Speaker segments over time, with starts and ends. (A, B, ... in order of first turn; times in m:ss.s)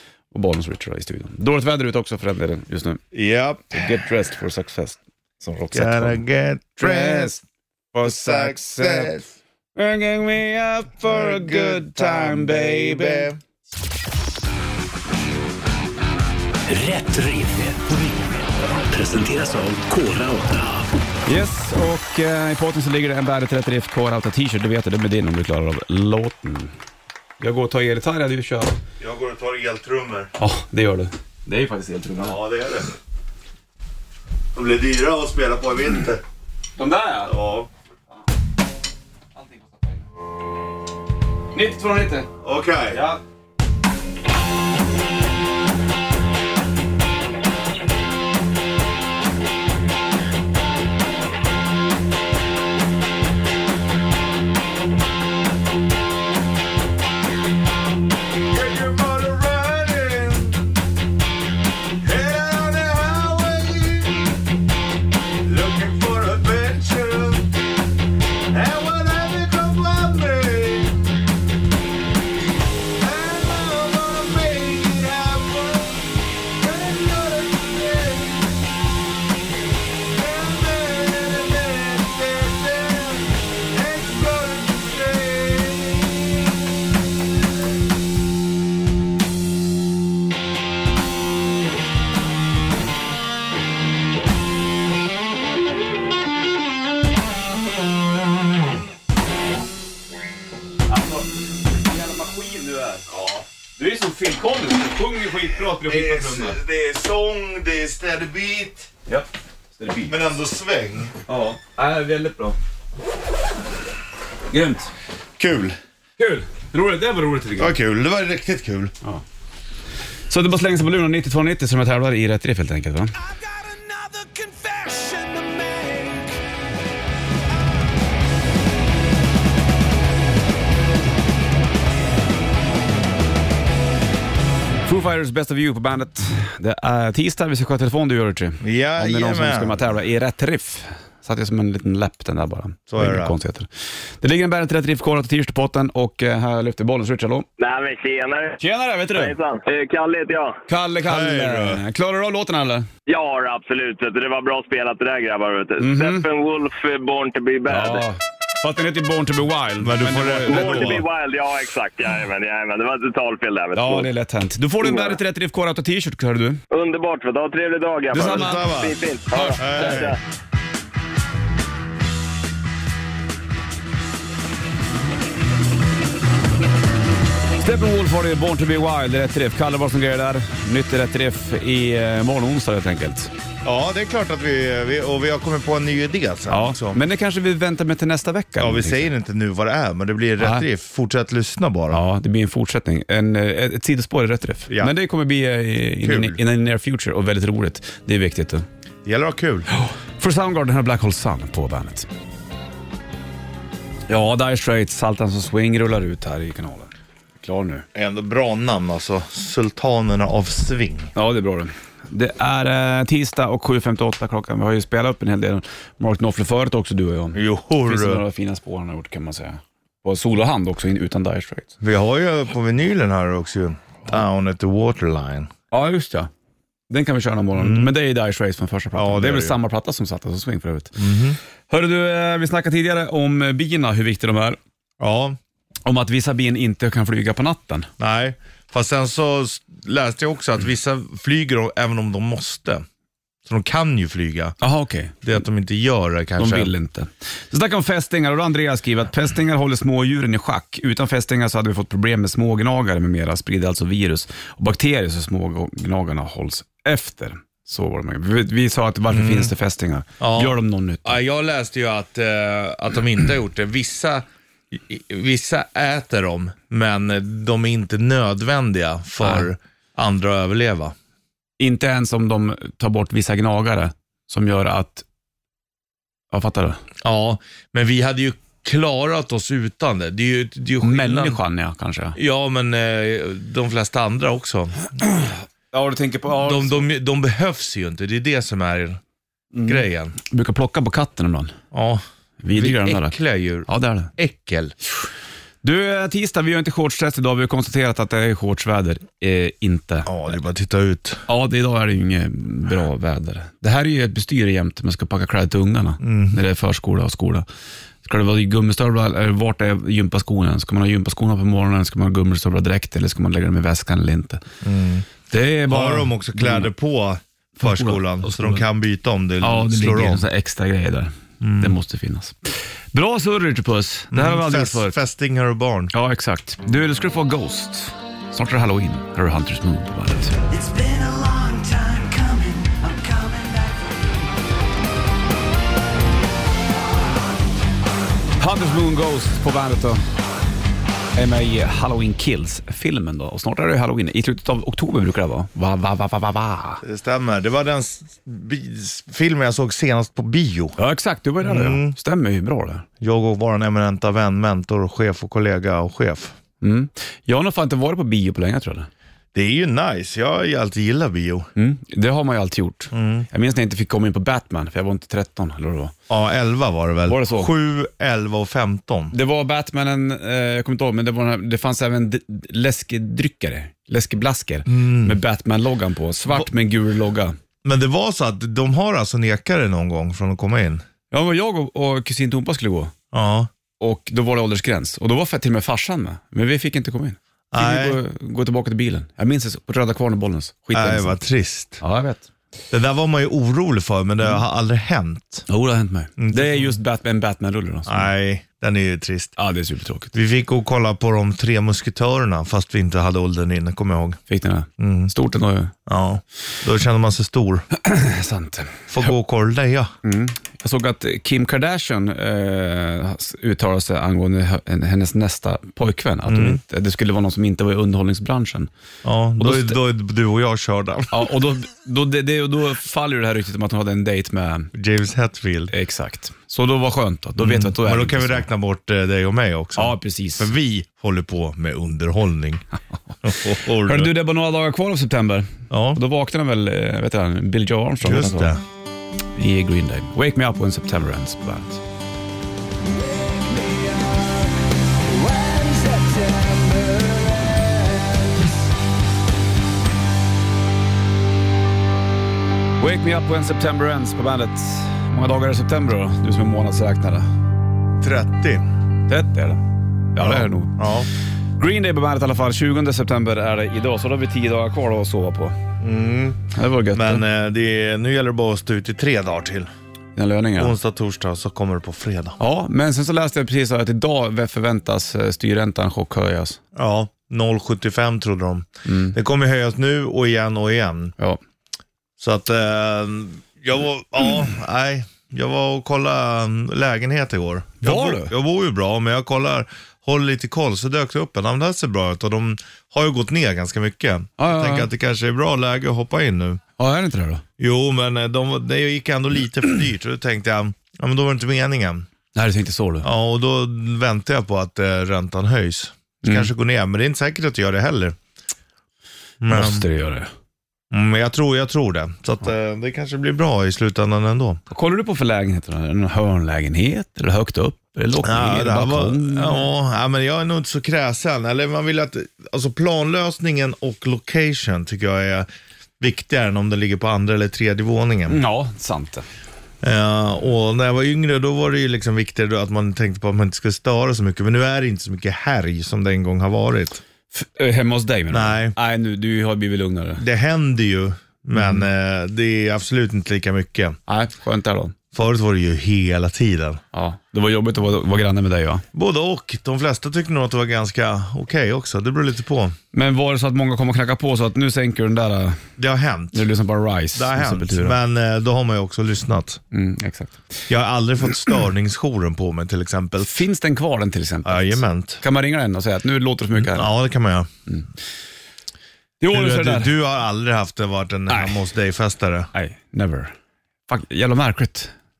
0:00.3-0:03.0 A
0:03.1-0:03.9 B
0:03.7-0:06.2 A
0:05.7-0:07.4 B
0:06.8-0:09.2 A
0:08.0-0:09.3 B
0:09.8-0:13.3 A
0:11.0-0:13.4 B
0:16.7-0:20.9 C
0:21.3-0:26.7 A
0:27.4-0:28.8 A
0:29.0-0:30.3 B
0:30.4-0:32.4 A
0:32.2-0:32.9 B
0:34.5-0:36.2 B
0:36.8-0:37.3 A
0:37.3-0:37.7 B
0:39.4-0:40.0 A
0:41.5-0:42.3 A
0:42.4-0:43.0 B
0:42.9-0:43.2 A
0:58.5-1:00.8 B
1:02.0-1:04.4 B
1:05.4-1:07.6 B
1:08.5-1:11.2 B
1:13.0-1:18.8 B
1:20.1-1:26.5 B
1:40.9-1:43.1 A
1:43.1-1:43.4 B
1:43.8-1:46.6 A
1:45.8-1:48.9 B
1:49.1-1:50.2 A
1:50.1-1:51.2 B
1:51.3-1:52.6 A
1:54.5-1:54.9 A
1:55.4-1:55.8 B
1:56.2-1:57.8 A
1:57.6-1:58.9 B
2:00.3-2:03.2 A
2:03.3-2:06.4 D
2:14.9-2:23.7 A
2:18.6-2:19.8 B
2:22.9-2:23.4 B
2:24.2-2:27.5 A
2:27.6-2:28.6 E
2:28.6-2:29.4 A
2:29.1-2:30.6 E
2:30.7-2:32.9 A
2:31.0-2:31.8 B
2:33.1-2:38.1 E
2:35.8-2:36.3 A
2:37.7-2:41.0 A
2:39.8-2:41.0 B
2:40.5-2:44.1 E
2:43.8-2:46.6 A
2:44.8-2:45.2 E
2:46.7-2:50.2 E
2:48.1-2:48.8 A
2:48.1-2:49.0 B
2:49.3-2:50.1 A
2:49.6-2:50.2 B
2:57.6-3:03.3 A
3:03.6-3:07.0 B
3:06.5-3:09.1 A
3:08.6-3:12.0 B
3:10.4-3:10.7 A
3:11.9-3:18.6 A
3:16.0-3:16.4 B
3:19.0-3:19.7 B
3:19.7-3:22.1 A
3:24.1-3:27.9 A
3:27.9-3:31.1 B
3:31.2-3:41.7 A
3:37.3-3:38.2 B
3:41.8-3:45.5 B
3:45.7-3:46.3 A
3:46.9-3:51.0 A
3:47.6-3:47.9 B
3:48.9-3:49.6 B
3:51.0-3:51.4 B
3:51.7-3:54.6 A
3:55.0-3:55.4 B
3:55.9-3:57.9 A
3:58.0-4:02.8 B
4:03.5-4:04.6 B
4:04.6-4:05.2 A
4:05.2-4:06.7 B
4:06.4-4:21.2 A
4:19.1-4:19.5 B
4:20.2-4:31.0 B
4:31.6-4:35.1 A
4:36.3-4:36.8 A
4:37.0-4:41.4 B
4:40.8-4:42.2 A
4:42.2-4:44.9 B
4:45.0-4:46.9 A
4:46.4-4:49.0 B
4:49.5-4:51.6 A
4:49.6-4:50.2 B
4:51.7-4:54.8 B
4:52.4-4:53.2 A
4:53.7-4:54.1 A
4:55.6-5:00.1 A
5:00.1-5:01.2 B
5:01.3-5:07.5 A
5:06.0-5:06.4 B
5:08.0-5:14.4 A
5:14.6-5:15.1 B
5:15.3-5:16.7 A
5:15.7-5:20.2 B
5:17.6-5:18.6 A
5:19.4-5:25.0 A
5:21.4-5:21.8 B
5:24.1-5:25.9 B
5:25.9-5:30.4 A
5:30.5-5:33.8 D
5:38.4-5:40.0 A
5:41.2-5:46.8 A
5:46.8-5:50.8 B
5:50.8-5:52.9 A
5:51.4-5:52.0 B
5:53.0-5:56.4 B
5:56.6-5:58.9 A
5:59.3-6:01.5 B
6:01.6-6:05.9 A
6:02.9-6:03.3 B
6:06.1-6:09.1 B
6:07.1-6:07.5 A
6:09.1-6:17.4 A
6:14.7-6:15.2 B
6:17.6-6:20.8 B
6:21.1-6:22.9 A
6:23.1-6:23.5 B
6:23.8-6:31.2 A
6:27.5-6:28.0 B
6:30.7-6:31.8 B
6:31.8-6:32.3 A
6:32.7-6:35.4 B
6:35.5-6:38.1 A
6:36.2-6:36.8 B
6:37.9-6:39.4 B
6:39.4-6:40.2 A
6:40.1-6:44.2 B
6:44.3-6:45.7 A
6:44.8-6:45.1 B
6:45.9-6:47.7 B
6:47.7-6:48.9 A
6:48.9-6:49.9 B
6:50.0-6:58.7 A
6:56.3-6:56.6 B
6:59.0-7:01.3 B
6:59.4-6:59.8 A
7:01.1-7:04.7 A
7:04.7-7:05.7 B
7:05.7-7:08.5 A
7:07.4-7:12.6 B
7:09.8-7:10.5 A
7:13.2-7:14.1 B
7:13.7-7:18.5 A
7:15.7-7:16.0 B
7:18.0-7:18.6 B
7:19.4-7:21.8 A
7:23.1-7:24.5 D
7:25.1-7:28.4 D
7:32.8-7:37.3 A
7:38.0-7:38.7 B
7:39.1-7:40.8 A
7:40.2-7:41.1 B
7:41.6-7:45.6 A
7:45.8-7:49.7 B
7:46.5-7:47.2 A
7:50.2-7:50.8 A
7:50.6-7:52.4 B
7:52.4-7:56.6 A
7:56.7-8:01.1 B
7:58.8-7:59.2 A
8:02.2-8:16.6 B
8:07.8-8:08.3 A
8:14.4-8:14.9 A
8:16.8-8:17.4 A
8:17.6-8:22.1 B
8:22.3-8:23.1 A
8:23.0-8:28.2 B
8:26.2-8:26.5 A
8:29.4-8:29.8 B
8:29.5-8:30.3 A
8:30.9-8:34.6 B
8:34.7-8:39.7 A
8:38.2-8:45.5 B
8:46.0-8:48.4 B
8:48.3-8:49.2 A
8:49.8-8:57.0 B
8:57.3-9:00.2 A
8:58.3-8:58.8 B
9:00.2-9:04.0 B
9:01.6-9:01.8 A
9:04.1-9:05.0 A
9:05.1-9:06.8 B
9:06.9-9:08.8 A
9:08.9-9:12.8 B
9:12.9-9:15.7 A
9:15.8-9:16.5 B
9:16.3-9:18.0 A
9:17.1-9:19.6 B
9:19.7-9:20.6 A
9:20.7-9:23.4 B
9:23.2-9:26.9 A
9:24.4-9:25.2 B
9:26.6-9:27.5 B
9:29.2-9:30.0 A
9:29.3-9:32.5 B
9:31.3-9:31.6 A
9:32.5-9:33.3 A
9:33.9-9:34.9 A